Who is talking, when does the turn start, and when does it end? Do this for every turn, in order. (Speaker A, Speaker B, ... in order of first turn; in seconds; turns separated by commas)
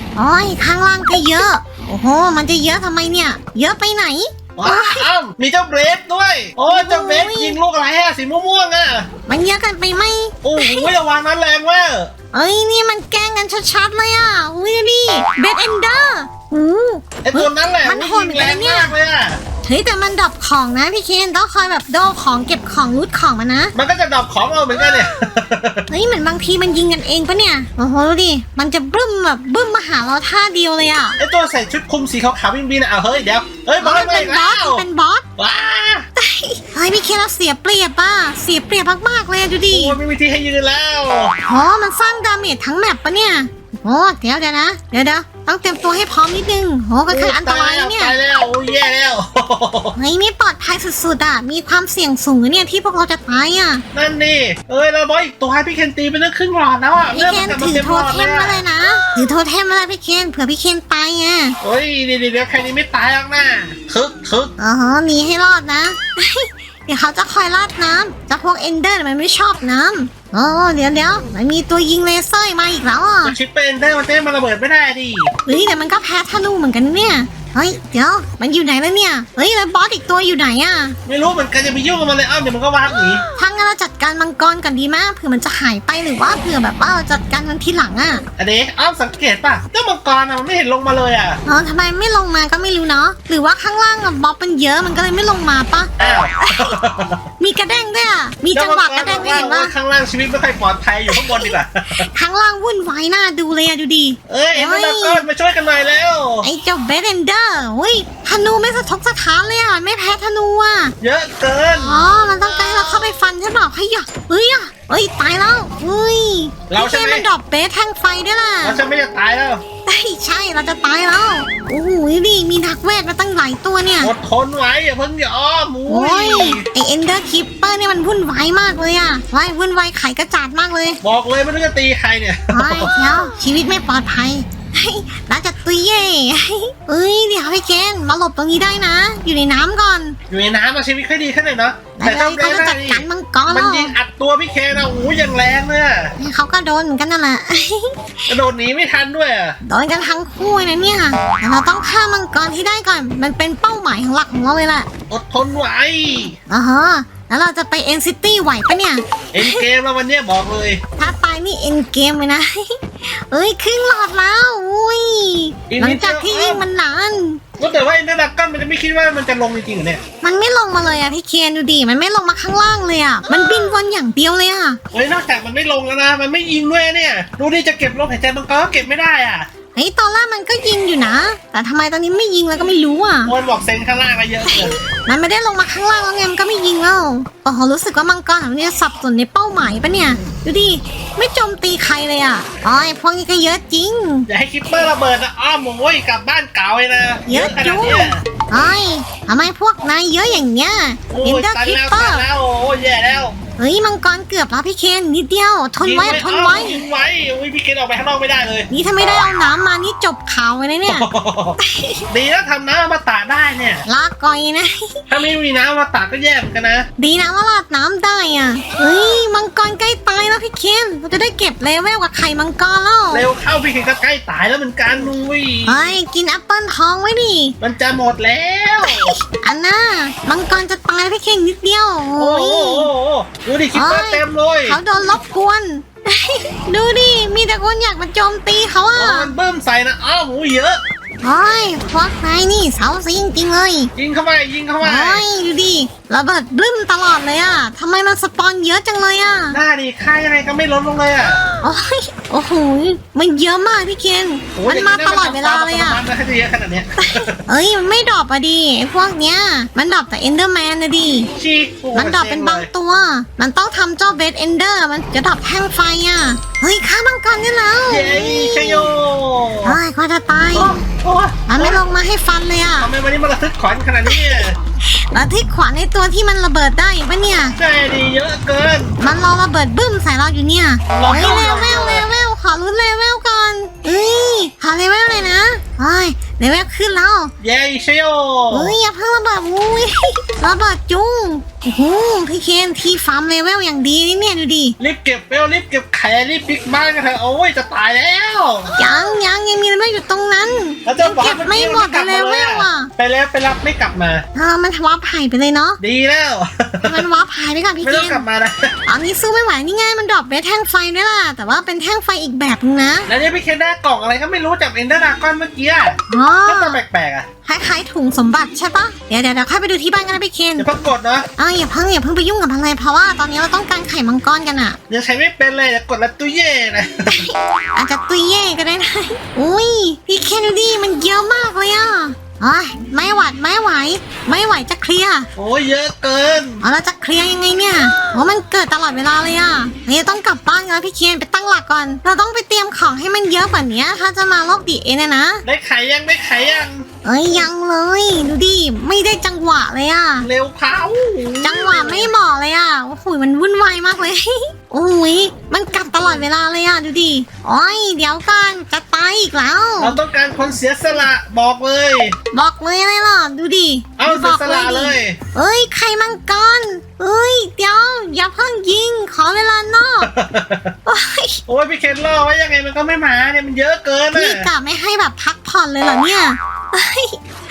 Speaker A: 0.1-5.1, Speaker B: 4.5-9.1, Speaker A: 6.7-7.6, Speaker A: 9.3-10.9, Speaker B: 10.4-12.1, Speaker A: 12.3-18.9, Speaker B: 17.2-19.4, Speaker A: 19.6-23.7, Speaker B: 23.7-25.9, Speaker A: 25.9-31.2, Speaker B: 31.2-34.8, Speaker A: 33.8-35.2, Speaker B: 35.4-36.0, Speaker A: 36.2-40.0, Speaker B: 39.7-41.3, Speaker A: 41.5-48.1, Speaker B: 47.1-49.9, Speaker A: 50.0-53.8, Speaker B: 53.9-58.6, Speaker A: 57.1-61.6, Speaker B: 61.6-64.5, Speaker A: 64.6-73.3, Speaker B: 73.2-75.3, Speaker A: 75.5-81.0, Speaker B: 81.0-83.2, Speaker A: 83.4-88.2, Speaker B: 88.4-91.4, Speaker A: 91.5-95.9, Speaker B: 96.0-97.2, Speaker A: 96.4-96.8, Speaker A: 97.4-99.7, Speaker B: 98.5-102.1, Speaker A: 101.1-105.2, Speaker B: 104.3-106.5, Speaker A: 106.4-110.9, Speaker B: 111.0-112.0, Speaker A: 111.7-118.8, Speaker B: 116.7-117.3, Speaker B: 118.6-119.6, Speaker A: 119.9-124.1, Speaker B: 124.0-126.7, Speaker A: 125.9-131.0, Speaker B: 131.0-132.9, Speaker A: 132.5-140.2, Speaker B: 140.3-146.1, Speaker A: 141.9-143.9, Speaker A: 146.2-148.3, Speaker B: 148.3-149.6, Speaker A: 149.6-154.9, Speaker B: 155.1-156.4, Speaker A: 156.5-159.6, Speaker B: 159.3-160.8, Speaker A: 161.0-167.4, Speaker B: 165.7-166.6, Speaker B: 167.6-170.0, Speaker A: 170.2-174.8, Speaker B: 174.9-179.5, Speaker A: 179.7-183.3, Speaker B: 183.2-184.8, Speaker A: 184.5-194.3, Speaker B: 194.3-198.2, Speaker A: 197.3-202.3, Speaker B: 201.1-203.3, Speaker A: 203.6-206.8, Speaker B: 205.8-208.7, Speaker A: 208.7-211.1, Speaker B: 210.9-211.6, Speaker A: 211.6-212.1, Speaker B: 212.1-213.8, Speaker A: 213.9-215.0, Speaker B: 215.1-216.9, Speaker A: 217.0-223.2, Speaker B: 223.1-225.9, Speaker A: 225.7-227.6, Speaker B: 227.6-229.2, Speaker A: 228.8-232.9, Speaker B: 232.2-234.8, Speaker A: 233.7-239.3, Speaker B: 238.9-240.8, Speaker A: 241.2-243.9, Speaker B: 243.9-245.2, Speaker A: 244.8-249.6, Speaker B: 249.5-251.4, Speaker A: 251.6-256.0, Speaker B: 254.6-257.4, Speaker A: 257.0-261.3, Speaker B: 261.3-262.7, Speaker A: 261.9-268.9, Speaker B: 267.9-269.8, Speaker A: 269.6-270.8, Speaker B: 270.5-271.8, Speaker A: 271.5-272.9, Speaker B: 272.8-274.6, Speaker A: 274.1-277.6, Speaker B: 277.6-278.9, Speaker A: 279.0-287.3, Speaker B: 280.9-282.1, Speaker B: 287.4-288.8, Speaker A: 288.5-294.8, Speaker B: 294.8-298.7, Speaker A: 298.8-302.9, Speaker B: 300.9-304.2, Speaker A: 304.3-305.8, Speaker B: 305.8-307.0, Speaker A: 306.8-308.2, Speaker B: 307.8-308.7, Speaker A: 308.9-313.1, Speaker B: 313.1-317.3, Speaker A: 316.1-316.8, Speaker A: 317.4-320.7, Speaker B: 320.6-321.3, Speaker A: 321.4-324.8, Speaker B: 324.9-327.2, Speaker A: 327.1-335.3, Speaker B: 335.4-336.6, Speaker A: 336.6-345.4, Speaker B: 345.4-346.8, Speaker A: 347.0-350.3, Speaker B: 350.2-352.1, Speaker A: 351.4-360.0, Speaker B: 359.8-362.2, Speaker A: 362.3-370.1, Speaker B: 364.0-365.2, Speaker B: 370.0-370.7, Speaker A: 370.9-371.4, Speaker B: 371.5-374.5, Speaker A: 374.1-377.2